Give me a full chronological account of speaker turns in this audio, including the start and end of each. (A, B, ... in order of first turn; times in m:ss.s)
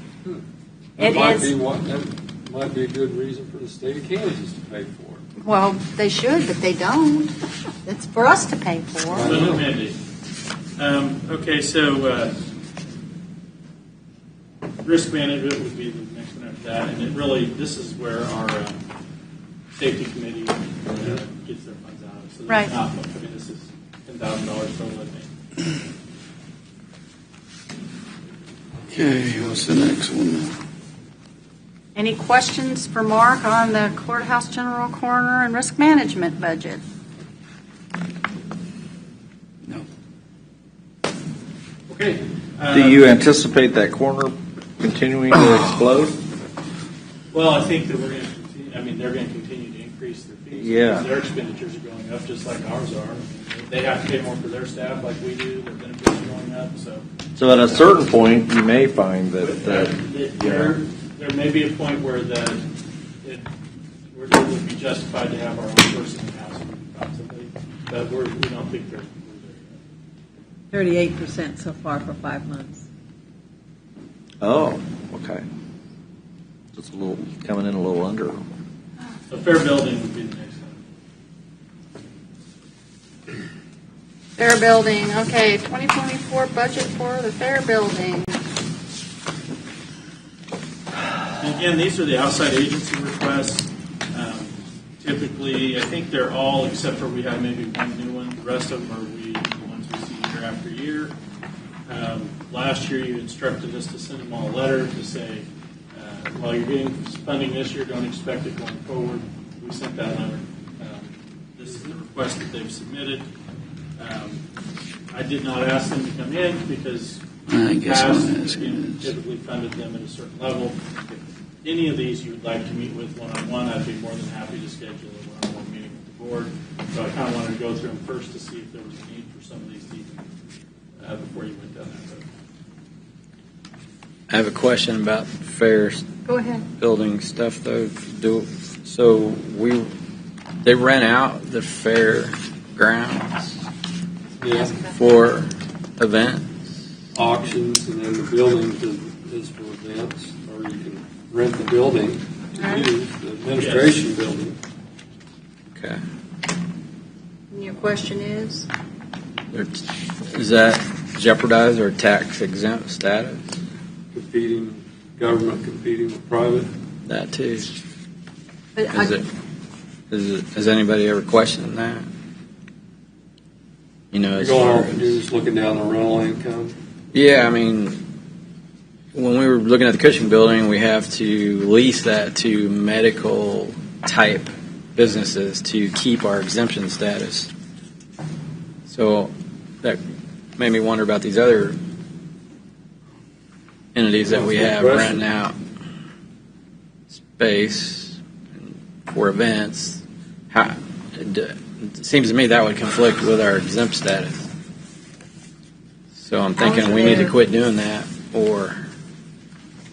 0:01.0-0:05.2 A
0:01.0-0:01.5 B
0:05.4-0:07.3 B
0:07.8-0:09.3 B
0:09.1-0:09.7 A
0:09.2-0:10.0 C
0:10.8-0:12.3 C
0:14.8-0:18.8 C
0:19.8-0:25.3 C
0:28.9-0:30.5 D
0:31.9-0:36.8 B
0:41.9-0:43.2 C
0:42.7-0:46.2 E
0:47.3-0:57.0 C
0:50.5-0:51.0 E
0:57.4-1:00.7 E
0:57.7-0:58.0 C
0:59.4-1:02.6 C
1:04.1-1:09.8 C
1:10.7-1:12.8 F
1:14.4-1:15.4 E
1:16.7-1:18.4 E
1:19.3-1:20.8 C
1:24.4-1:28.4 B
1:31.4-1:41.1 C
1:41.9-1:53.2 C
1:54.0-1:54.4 C
1:55.1-2:10.2 C
1:57.6-1:58.6 D
2:11.0-2:12.2 C
2:14.3-2:16.0 G
2:16.2-2:16.6 B
2:16.8-2:19.9 G
2:20.6-2:23.6 G
2:24.4-2:24.8 A
2:24.4-2:25.2 B
2:24.9-2:26.5 G
2:27.1-2:34.6 A
2:32.6-2:32.9 B
2:33.6-2:34.0 C
2:37.5-2:38.7 B
2:39.5-2:43.5 G
2:44.1-2:46.7 A
2:47.0-2:47.7 G
2:48.8-2:49.1 B
2:48.9-2:49.2 G
2:50.1-2:52.0 G
2:54.1-2:55.2 G
2:54.4-2:56.8 A
2:57.1-2:58.0 G
2:59.1-3:07.5 G
3:08.9-3:10.0 G
3:10.6-3:11.8 G
3:13.9-3:15.5 G
3:14.2-3:15.2 A
3:17.1-3:24.5 G
3:26.2-3:28.8 G
3:26.6-3:27.3 B